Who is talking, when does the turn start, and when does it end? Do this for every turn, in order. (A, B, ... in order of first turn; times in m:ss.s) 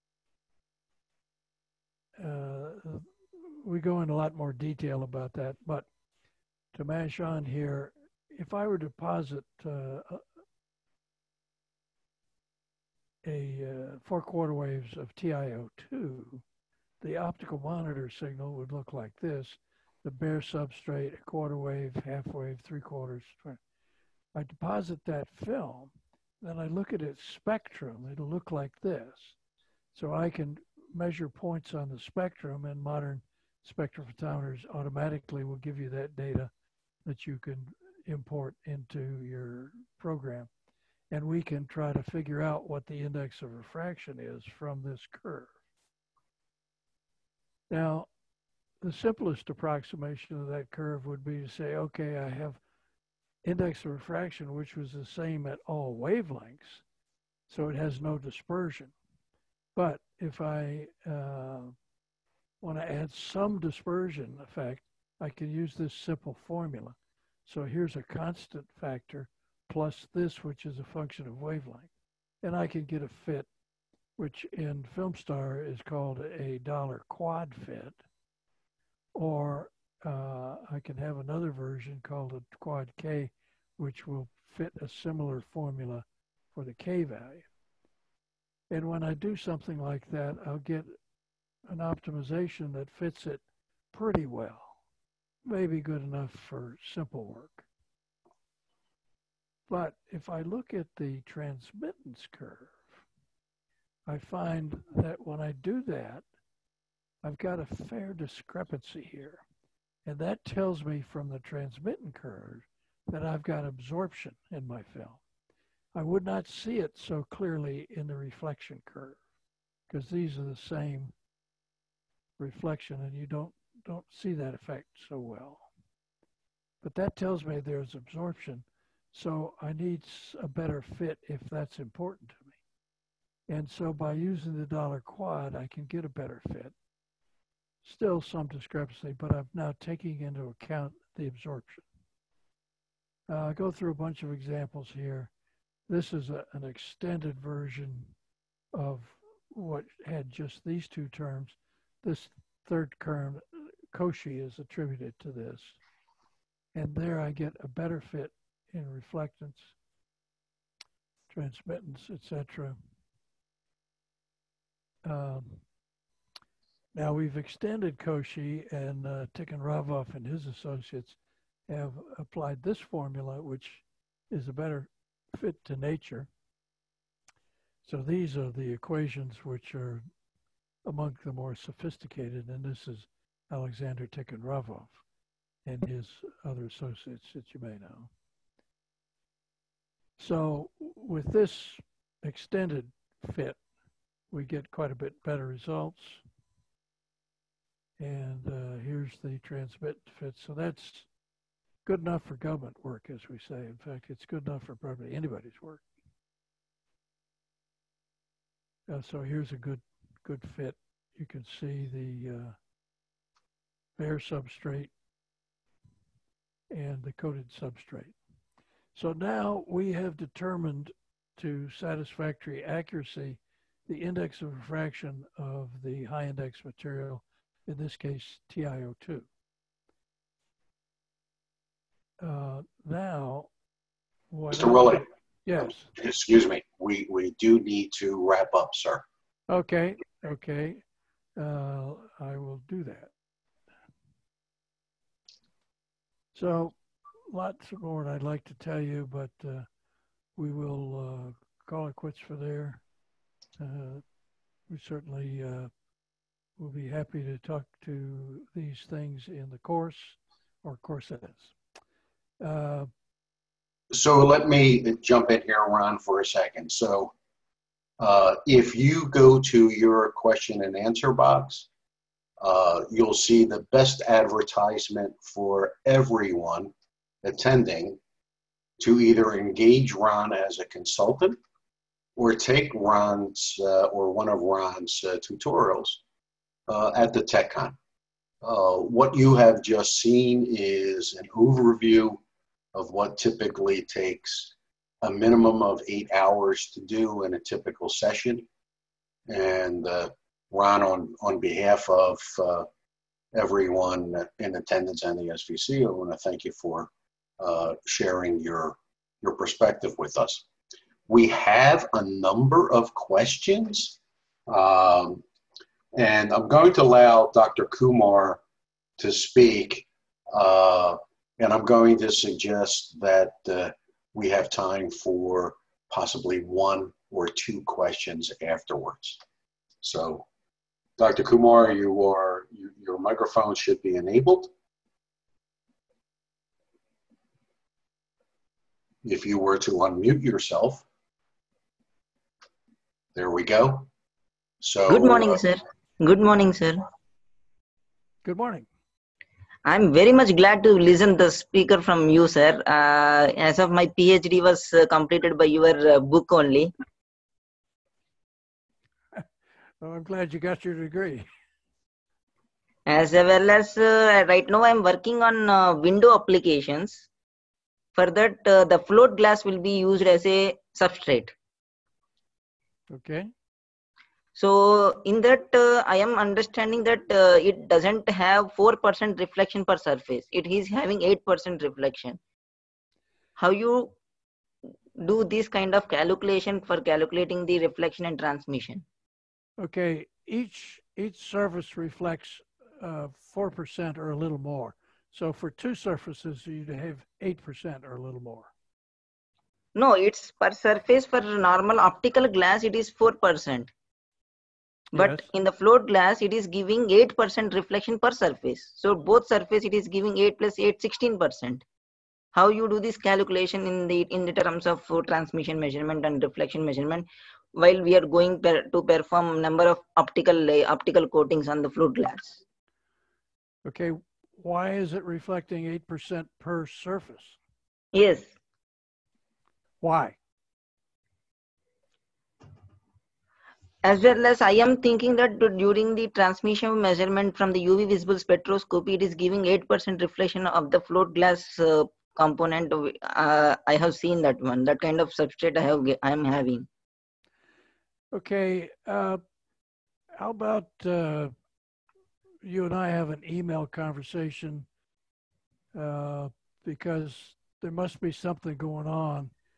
0:02.2-0:05.9 A
0:06.7-0:10.2 A
0:13.2-0:16.4 A
0:17.0-0:23.6 A
0:24.3-0:29.4 A
0:29.9-0:36.5 A
0:37.0-0:40.5 A
0:41.1-0:45.5 A
0:47.7-0:48.1 A
0:48.8-0:52.6 A
0:53.4-0:56.8 A
0:57.5-0:58.9 A
0:59.7-1:01.7 A
1:02.6-1:06.9 A
1:07.4-1:11.9 A
1:12.4-1:13.5 A
1:14.2-1:18.0 A
1:19.1-1:27.5 A
1:28.7-1:30.9 A
1:31.7-1:34.8 A
1:35.4-1:37.6 A
1:39.7-1:43.0 A
1:44.1-1:46.2 A
1:47.2-1:49.4 A
1:50.0-1:55.2 A
1:55.9-1:59.2 A
1:59.9-2:01.1 A
2:02.4-2:05.7 A
2:06.8-2:12.6 A
2:13.5-2:16.7 A
2:17.8-2:21.8 A
2:23.3-2:25.3 A
2:25.9-2:28.1 A
2:28.7-2:35.8 A
2:36.7-2:39.7 A
2:41.3-2:42.8 A
2:45.0-2:45.6 A
2:46.9-2:51.2 A
2:51.7-2:56.3 A
2:57.8-3:00.0 A
3:00.8-3:05.0 A
3:05.6-3:08.1 A
3:10.2-3:13.6 A
3:14.3-3:16.2 A
3:18.0-3:21.1 A
3:21.8-3:25.8 A
3:28.9-3:32.5 A
3:34.0-3:34.9 A
3:36.7-3:38.2 A
3:38.9-3:49.3 A
3:52.2-3:53.5 A
3:54.3-3:55.9 A
3:54.5-3:55.0 B
3:55.9-3:59.0 B
3:59.5-4:00.8 A
4:01.4-4:03.1 A
4:06.3-4:06.8 A
4:07.3-4:09.7 A
4:10.4-4:12.8 A
4:13.6-4:14.0 A
4:14.7-4:15.7 A
4:16.6-4:21.5 A
4:22.4-4:22.9 A
4:23.9-4:27.1 B
4:28.0-4:31.7 B
4:32.4-4:36.7 B
4:37.2-4:38.0 B
4:38.8-4:41.4 B
4:42.2-4:46.0 B
4:46.7-4:47.8 B
4:48.4-4:52.2 B
4:52.7-4:58.4 B
4:59.3-5:02.7 B
5:03.3-5:10.4 B
5:11.1-5:14.0 B
5:14.5-5:15.2 B
5:15.9-5:18.4 B
5:19.0-5:29.2 B
5:29.8-5:30.2 B
5:31.0-5:34.5 B
5:39.0-5:40.8 B
5:43.1-5:43.9 B
5:44.6-5:45.4 B
5:44.9-5:46.8 C
5:48.2-5:48.7 A
5:49.6-5:56.7 C
5:59.8-6:01.2 A
6:02.8-6:07.0 C
6:07.9-6:11.3 C
6:12.9-6:13.3 A
6:14.3-6:22.2 C
6:23.4-6:23.9 C
6:25.0-6:28.8 C
6:29.6-6:38.5 A
6:39.7-6:43.7 C
6:44.9-6:45.3 A
6:44.9-6:51.6 C
6:52.3-7:02.4 C
7:03.6-7:07.4 A
7:07.9-7:08.3 C
7:09.8-7:10.2 A
7:13.8-7:26.7 C
7:28.1-7:29.2 A
7:30.2-7:31.3 A
7:32.4-7:34.7 A
7:35.7-7:39.3 A